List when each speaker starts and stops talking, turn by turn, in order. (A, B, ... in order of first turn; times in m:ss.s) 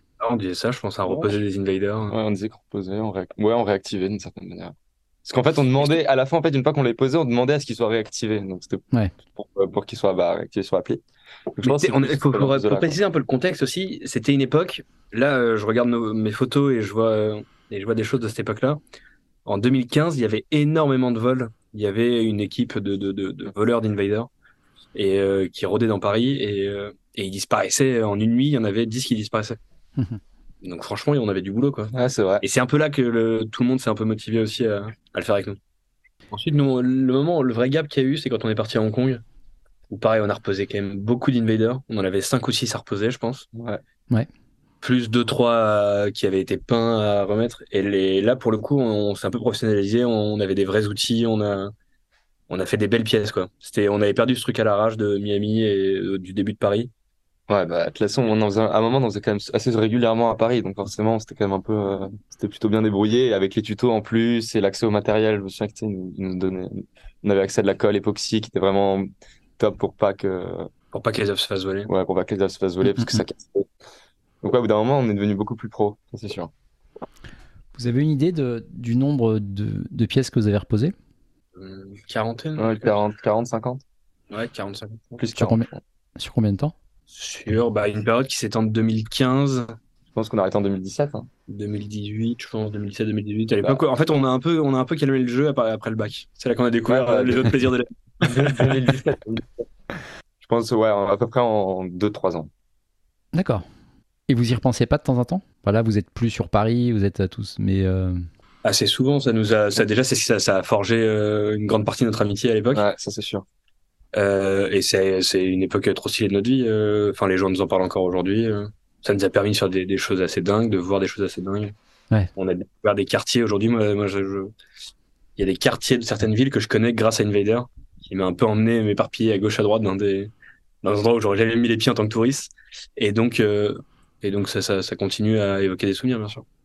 0:00.2-0:02.2 A
0:02.1-0:11.0 B
0:11.6-0:12.9 B
0:11.6-0:18.8 A
0:19.4-0:24.3 A
0:24.9-0:29.6 A
0:30.6-0:35.6 A
0:31.9-0:32.4 B
0:36.3-0:39.2 A
0:39.9-0:43.5 A
0:43.5-0:43.8 B
0:44.8-0:51.7 A
0:52.5-0:56.9 A
0:57.5-1:10.7 B
1:10.9-1:11.9 A
1:11.9-1:13.7 B
1:12.9-1:13.2 C
1:14.4-1:16.5 B
1:17.7-1:20.9 C
1:21.6-1:22.9 A
1:22.6-1:23.8 B
1:24.3-1:25.2 A
1:25.2-1:25.8 B
1:25.4-1:26.7 C
1:27.1-1:29.7 A
1:30.1-1:31.3 B
1:31.5-1:38.8 A
1:36.9-1:37.6 B
1:38.2-1:39.6 B
1:40.4-1:42.5 B
1:43.3-1:43.6 C
1:44.3-1:48.2 C
1:48.6-1:52.8 A
1:52.7-1:53.4 B
1:54.1-2:01.7 A
2:02.4-2:04.5 A
2:05.4-2:10.3 A
2:10.8-2:16.4 A